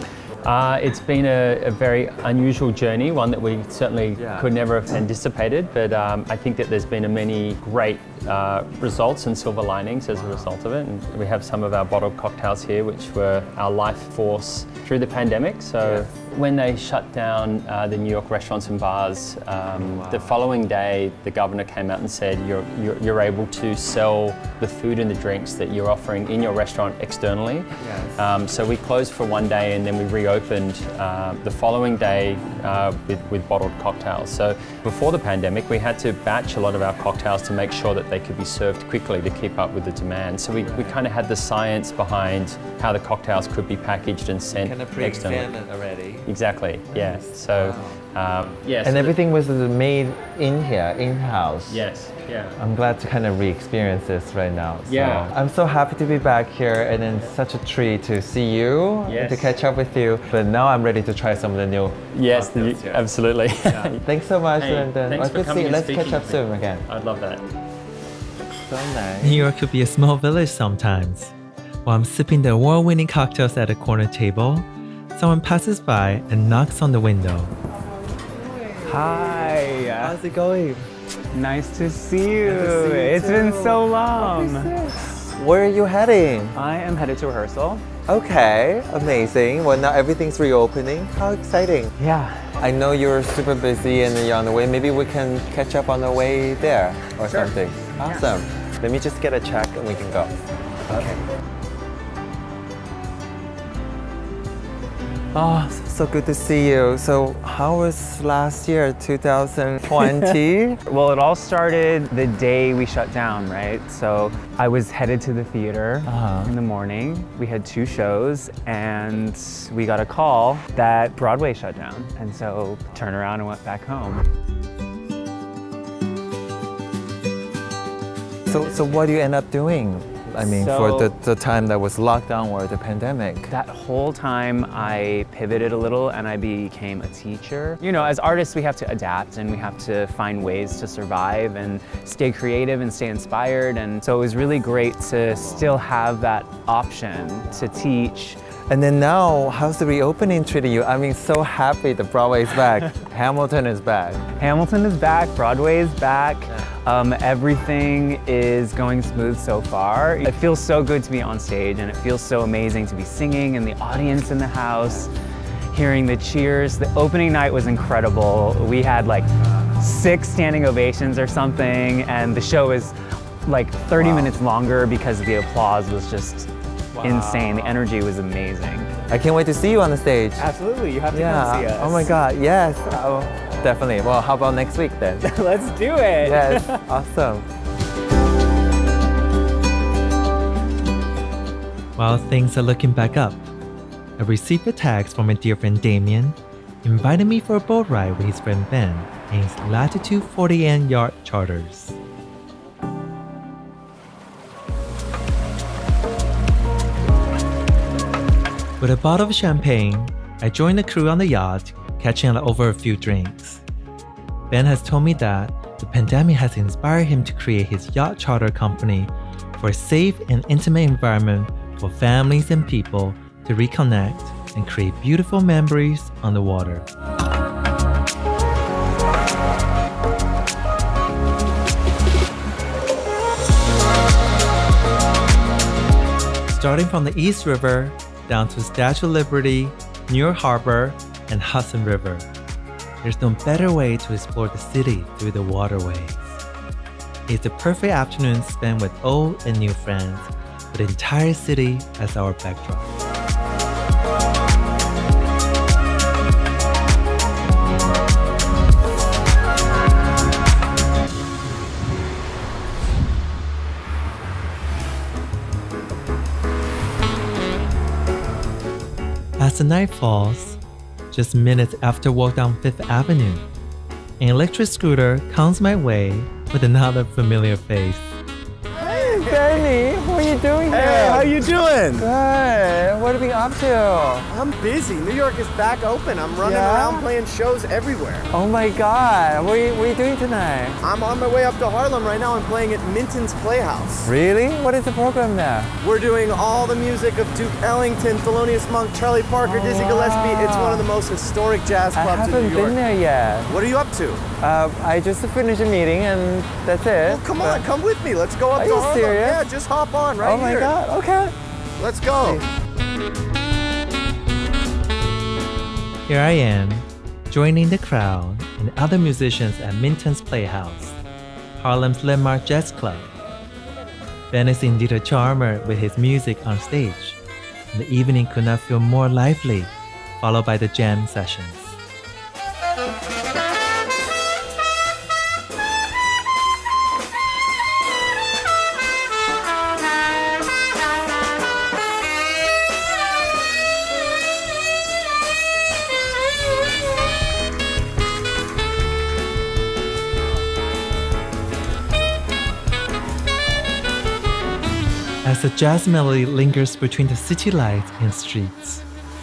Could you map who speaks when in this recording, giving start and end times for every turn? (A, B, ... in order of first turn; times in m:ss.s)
0:00.4-0:45.5 A
0:04.2-0:04.5 B
0:15.8-0:16.1 B
0:19.8-0:20.4 B
0:27.8-0:28.3 B
0:40.6-0:41.0 B
0:44.5-0:46.3 B
0:46.2-0:49.1 A
0:46.9-0:48.0 B
0:48.8-0:51.8 B
0:51.7-0:52.6 A
0:52.6-1:03.0 B
0:54.8-0:55.3 A
0:59.0-0:59.6 A
1:02.1-1:04.0 A
1:03.9-1:06.9 B
1:04.6-1:07.5 A
1:08.6-1:09.5 B
1:09.2-1:11.3 C
1:11.8-1:17.5 C
1:18.8-1:20.2 D
1:20.0-1:20.8 C
1:21.3-1:24.7 D
1:22.4-1:26.6 B
1:26.5-1:27.8 D
1:28.1-1:31.9 B
1:32.0-1:32.5 D
1:32.6-1:40.3 B
1:40.9-1:41.2 B
1:45.3-1:50.8 B
1:50.8-2:04.2 D
1:56.0-1:56.6 B
2:08.5-2:13.5 B
2:10.4-2:11.1 D
2:13.5-2:28.4 D
2:25.4-2:25.7 B
2:28.7-2:34.2 B
2:34.4-2:45.1 D
2:45.7-2:56.5 D
2:54.0-2:54.4 B
2:56.9-2:57.8 B
2:57.0-2:58.9 D
2:59.1-3:00.5 B
3:00.4-3:02.1 D
3:01.1-3:05.3 B
3:05.2-3:06.8 D
3:06.2-3:07.4 B
3:12.0-3:13.5 C
3:14.2-3:22.0 C
3:28.8-3:33.6 C
3:34.5-3:46.9 C
3:56.5-4:02.3 C
4:03.0-4:06.4 C
4:07.3-4:12.9 C
4:29.4-4:30.6 C
4:31.1-4:33.4 C
4:34.2-4:38.1 C
4:38.7-4:39.6 E
4:38.9-4:41.4 B
4:40.7-4:42.1 E
4:42.0-4:44.3 B
4:44.3-4:48.3 E
4:46.4-4:47.1 B
4:48.3-4:50.8 B
4:50.8-4:54.1 E
4:54.0-4:55.7 B
4:55.8-5:02.8 E
4:59.4-5:00.9 B
5:02.0-5:03.5 B
5:03.4-5:04.2 E
5:04.4-5:07.6 B
5:07.0-5:10.8 E
5:08.5-5:09.4 B
5:10.2-5:11.3 B
5:11.8-5:12.4 E
5:12.1-5:12.5 B
5:16.1-5:21.0 C
5:21.6-5:23.1 C
5:24.3-5:27.2 C
5:27.7-5:31.8 C
5:55.2-5:58.8 C